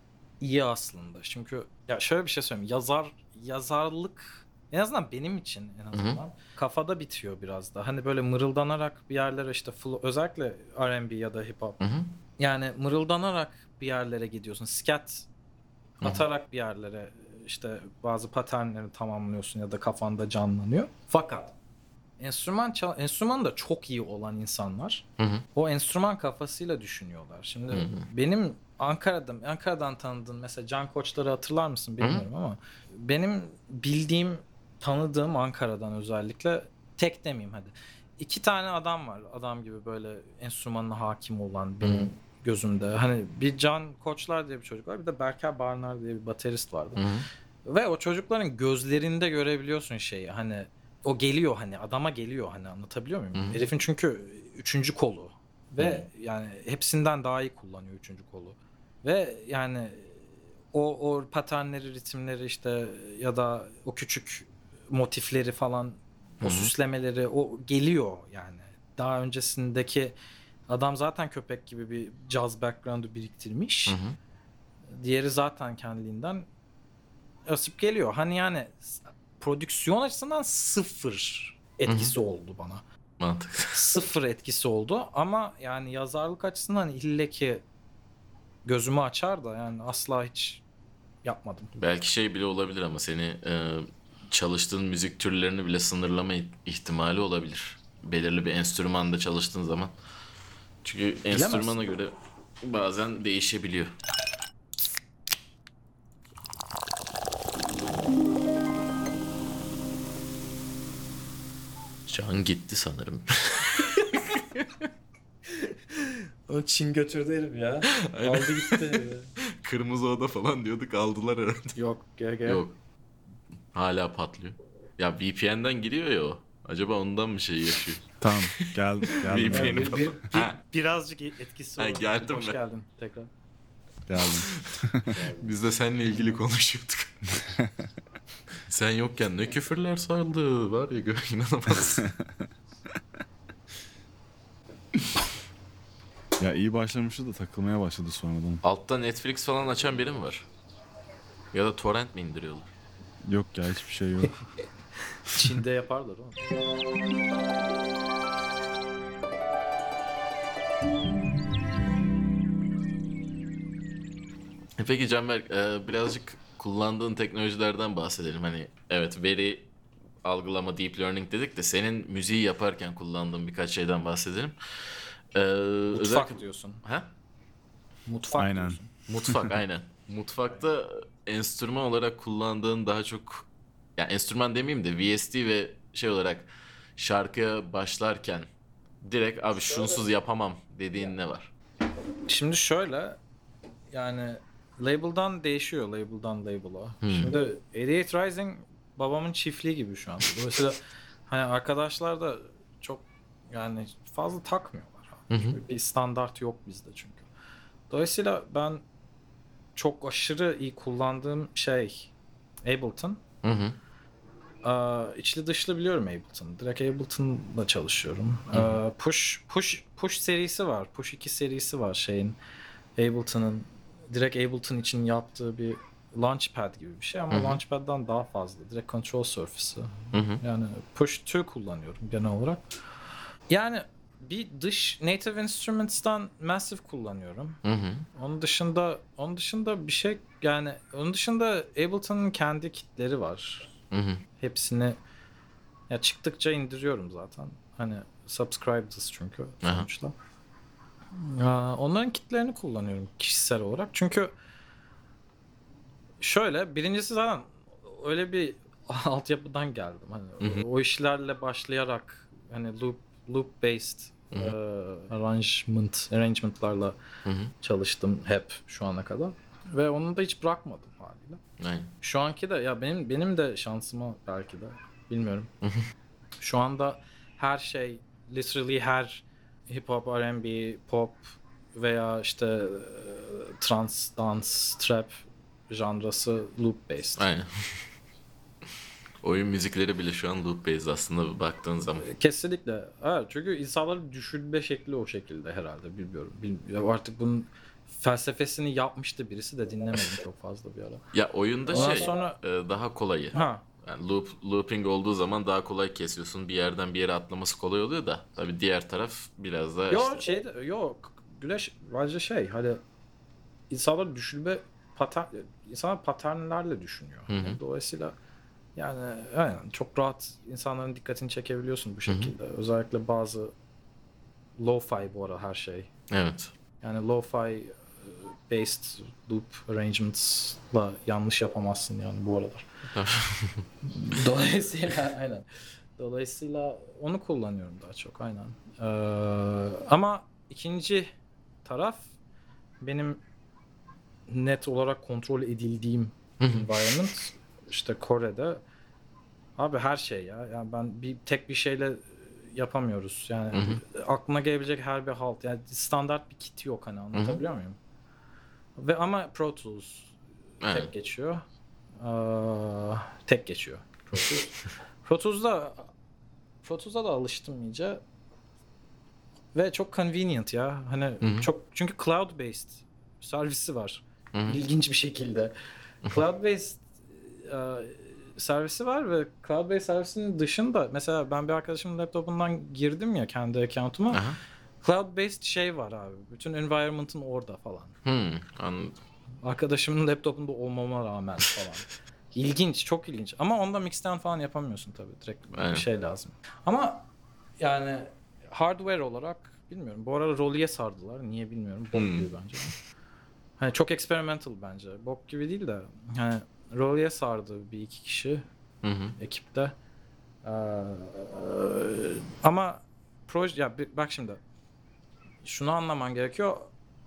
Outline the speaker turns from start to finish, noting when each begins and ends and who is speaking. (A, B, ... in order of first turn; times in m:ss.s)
0:00.4-0:11.8 A
0:05.9-0:06.2 B
0:11.8-0:12.1 B
0:12.4-0:15.3 A
0:16.0-0:21.5 A
0:22.2-0:47.0 A
0:25.2-0:25.4 B
0:27.7-0:28.1 B
0:41.8-0:42.1 B
0:47.0-0:47.3 B
0:47.6-1:10.2 A
0:53.3-0:53.6 B
0:55.8-0:56.0 B
1:06.4-1:06.7 B
1:10.7-1:14.0 A
1:13.9-1:14.2 B
1:14.9-1:16.5 A
1:17.5-1:22.8 A
1:21.9-1:22.1 B
1:23.2-1:23.8 B
1:23.7-1:27.6 A
1:28.7-1:30.6 A
1:31.2-1:31.7 A
1:31.8-1:39.9 B
1:40.8-1:43.9 B
1:41.3-1:41.9 A
1:52.1-1:54.7 B
1:55.6-1:59.3 A
1:57.9-2:01.8 B
2:01.8-2:02.6 A
2:02.5-2:02.8 B
2:03.7-2:10.6 B
2:08.2-2:10.4 C
2:09.5-2:13.3 A
2:11.8-2:12.6 B
2:14.1-2:15.2 C
2:14.5-2:17.4 B
2:17.3-2:17.9 C
2:18.7-2:22.1 B
2:22.0-2:22.5 C
2:26.4-2:28.6 C
2:28.6-2:30.5 B
2:31.5-2:32.7 B
2:33.2-2:34.3 C
2:35.3-2:36.5 A
2:44.8-2:49.7 B
2:50.2-2:54.5 B
2:55.3-2:57.1 B
2:55.9-2:56.8 A
2:58.1-2:58.9 A
2:58.4-2:59.5 C
2:59.1-3:08.5 B
3:09.0-3:11.5 B
3:12.3-3:13.2 A
3:13.9-3:27.3 A
3:17.0-3:17.4 B
3:25.3-3:25.6 B
3:27.9-3:28.8 A
3:29.8-3:32.1 A
3:32.6-3:33.2 A
3:33.4-3:33.8 B
3:34.6-3:42.4 A
3:38.5-3:38.8 B
3:43.0-3:52.6 A
3:47.3-3:47.6 B
3:50.1-3:50.4 B
3:53.5-3:57.6 A
3:57.6-3:58.1 B
3:58.1-4:03.7 A
4:03.9-4:04.2 B
4:04.4-4:05.0 A
4:05.9-4:10.1 A
4:11.2-4:14.3 A
4:16.2-4:27.0 A
4:20.4-4:20.7 B
4:27.2-4:27.5 B
4:27.6-4:31.4 A
4:31.6-4:31.9 B
4:32.0-4:35.5 A
4:35.6-4:35.9 B
4:36.4-4:47.2 A
4:47.2-4:47.8 B
4:49.2-4:52.1 B
4:52.0-5:01.0 A
5:01.1-5:10.2 B
5:01.7-5:02.4 A
5:03.3-5:03.6 A
5:09.9-5:12.8 A
5:13.7-5:18.2 A
5:17.3-5:17.6 B
5:18.8-5:23.5 A
5:22.1-5:22.3 B
5:24.6-5:25.9 A
5:26.1-5:26.5 B
5:26.8-5:32.7 A
5:32.9-5:33.7 B
5:33.9-5:35.5 A
5:36.0-5:41.1 A
5:41.6-5:42.1 A
5:42.8-5:43.2 A
5:44.3-5:48.6 A
5:46.4-5:46.7 B
5:49.6-5:57.8 A
5:53.5-5:53.8 B
5:57.2-5:57.4 B
5:58.8-6:00.1 A
6:00.6-6:00.9 B
6:00.7-6:01.4 A
6:02.0-6:04.5 A
6:05.0-6:05.9 A
6:06.6-6:08.0 A
6:09.5-6:15.5 A
6:11.2-6:11.5 B
6:16.0-6:24.2 A
6:24.1-6:24.4 B
6:24.8-6:28.0 A
6:28.0-6:29.0 B
6:29.4-6:37.0 A
6:35.6-6:35.8 B
6:37.6-6:42.7 A
6:41.9-6:42.7 B
6:43.6-6:48.4 A
6:48.8-6:49.2 B
6:49.2-6:49.7 A
6:50.4-6:54.4 A
6:55.4-6:56.7 A